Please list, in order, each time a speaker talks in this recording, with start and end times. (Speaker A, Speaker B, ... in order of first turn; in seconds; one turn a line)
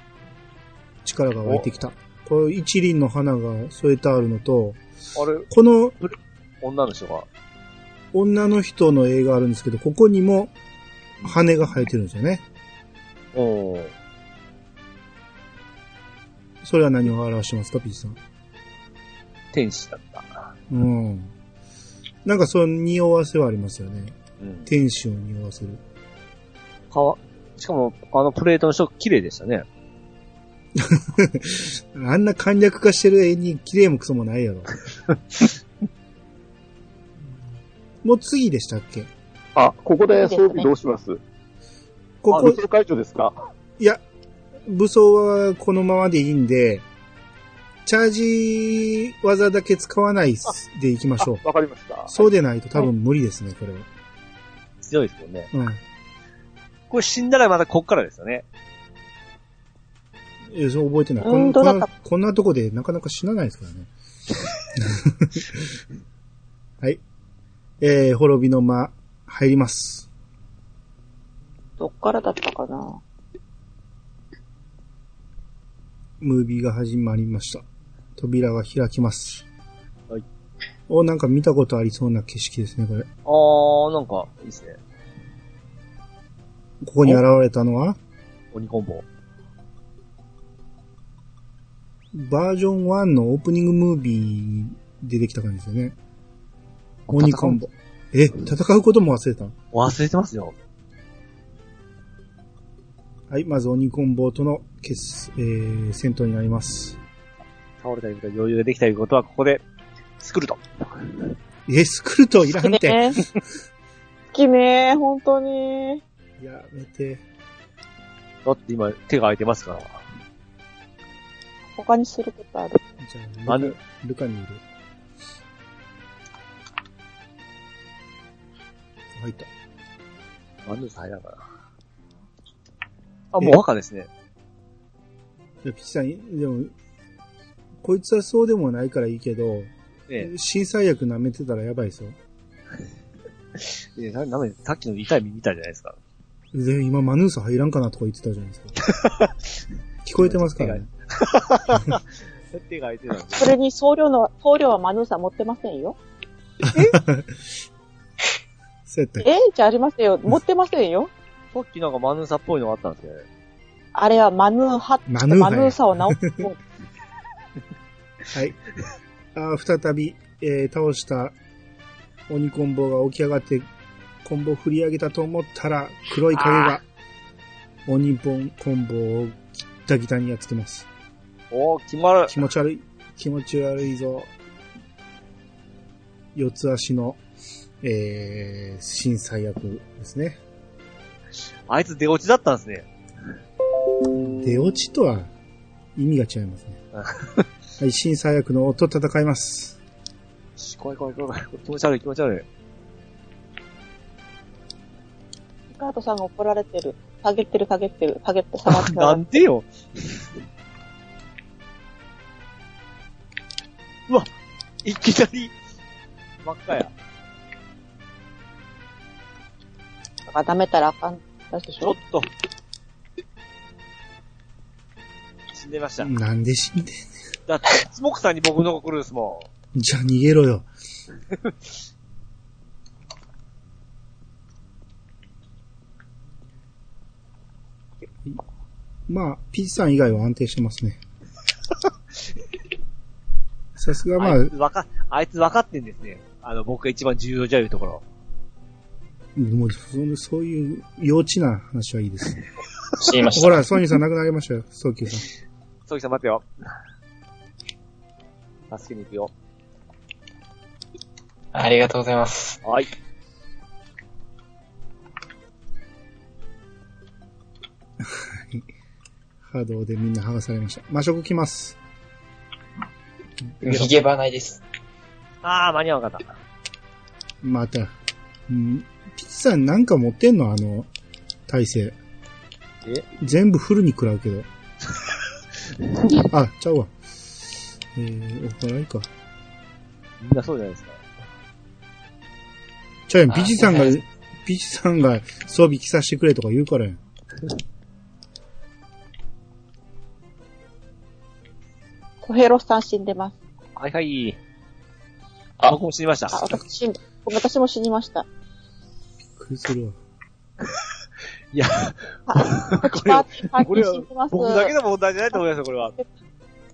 Speaker A: 1.0-4.8
Speaker B: 1.4-1.7
Speaker B: 5.2-5.5
Speaker A: 5.5-6.0
Speaker B: 6.0-7.3
Speaker A: 8.1-10.5
Speaker A: 11.2-12.4
Speaker B: 13.3-13.9
Speaker A: 16.6-18.2
Speaker B: 19.5-20.5
Speaker A: 20.7-21.3
Speaker A: 22.2-25.8
Speaker B: 24.4-24.7
Speaker B: 26.9-29.6
Speaker A: 30.8-34.7
Speaker B: 35.1-35.4
Speaker A: 38.0-39.1
Speaker C: 39.5-41.2
Speaker D: 40.1-40.7
Speaker A: 42.2-42.6
Speaker C: 42.3-43.4
Speaker A: 44.7-46.8
Speaker A: 47.8-51.4
Speaker C: 51.4-52.1
Speaker A: 52.1-53.9
Speaker B: 54.8-55.5
Speaker A: 55.5-55.8
Speaker B: 56.9-58.4
Speaker A: 60.5-63.9
Speaker D: 61.2-61.9
Speaker A: 64.7-65.8
Speaker A: 67.8-70.1
Speaker D: 71.8-73.0
Speaker A: 76.2-77.6
Speaker A: 78.2-79.5
Speaker A: 80.9-83.1
Speaker B: 83.2-84.8
Speaker A: 86.8-88.0
Speaker B: 88.5-89.0
Speaker A: 92.1-96.0
Speaker B: 97.1-97.6
Speaker A: 97.1-99.5
Speaker B: 99.7-100.5
Speaker A: 103.3-107.0
Speaker B: 107.8-109.6
Speaker B: 110.2-111.2
Speaker A: 111.7-113.2
Speaker D: 112.6-113.2
Speaker D: 114.3-116.0
Speaker A: 116.4-117.2
Speaker B: 118.4-120.0
Speaker D: 121.7-122.8
Speaker A: 123.0-124.6
Speaker B: 123.5-123.8
Speaker A: 129.1-129.5
Speaker B: 130.7-131.4
Speaker B: 133.3-134.1
Speaker A: 135.6-136.7
Speaker A: 137.8-142.2
Speaker B: 143.6-146.0
Speaker A: 146.5-148.7
Speaker B: 148.8-149.5
Speaker A: 150.0-150.9
Speaker B: 150.2-153.5
Speaker D: 153.3-156.0
Speaker A: 156.6-157.4
Speaker A: 158.9-159.2
Speaker D: 159.2-161.1
Speaker B: 161.5-163.2
Speaker D: 163.9-166.6
Speaker A: 165.1-166.4
Speaker A: 168.3-168.6
Speaker A: 169.3-171.3
Speaker A: 172.3-173.7
Speaker A: 174.2-176.8
Speaker B: 176.3-176.8
Speaker A: 177.8-180.9
Speaker B: 181.5-182.4
Speaker A: 182.3-184.3
Speaker A: 186.3-187.2
Speaker A: 187.8-190.4
Speaker B: 191.7-192.9
Speaker A: 194.1-195.3
Speaker A: 195.9-196.8
Speaker B: 196.9-197.4
Speaker A: 197.8-199.8
Speaker B: 200.6-202.4
Speaker D: 205.7-209.2
Speaker B: 208.7-210.3
Speaker B: 214.8-215.5
Speaker B: 216.4-216.9
Speaker D: 220.3-221.9
Speaker B: 221.8-222.3
Speaker B: 225.5-226.1
Speaker A: 226.0-227.1
Speaker B: 227.5-229.5
Speaker A: 229.7-230.7
Speaker A: 239.1-241.0
Speaker A: 243.8-244.5
Speaker B: 244.2-248.0
Speaker A: 249.3-252.4
Speaker E: 253.0-253.5
Speaker A: 253.3-255.3
Speaker B: 255.9-256.4
Speaker B: 258.7-259.3
Speaker E: 261.5-262.6
Speaker B: 262.6-262.9
Speaker A: 268.0-268.6
Speaker A: 269.4-271.8
Speaker E: 273.6-274.6
Speaker B: 275.4-276.3
Speaker A: 277.4-277.9
Speaker A: 278.5-280.9
Speaker A: 281.5-281.9
Speaker A: 283.2-284.5
Speaker A: 286.2-286.9
Speaker A: 287.9-289.1
Speaker B: 290.2-291.0
Speaker A: 293.1-297.0
Speaker D: 302.2-303.4
Speaker B: 303.8-304.4
Speaker B: 305.6-306.4
Speaker D: 306.3-308.2
Speaker A: 309.4-310.0
Speaker B: 311.5-315.9
Speaker D: 312.3-314.7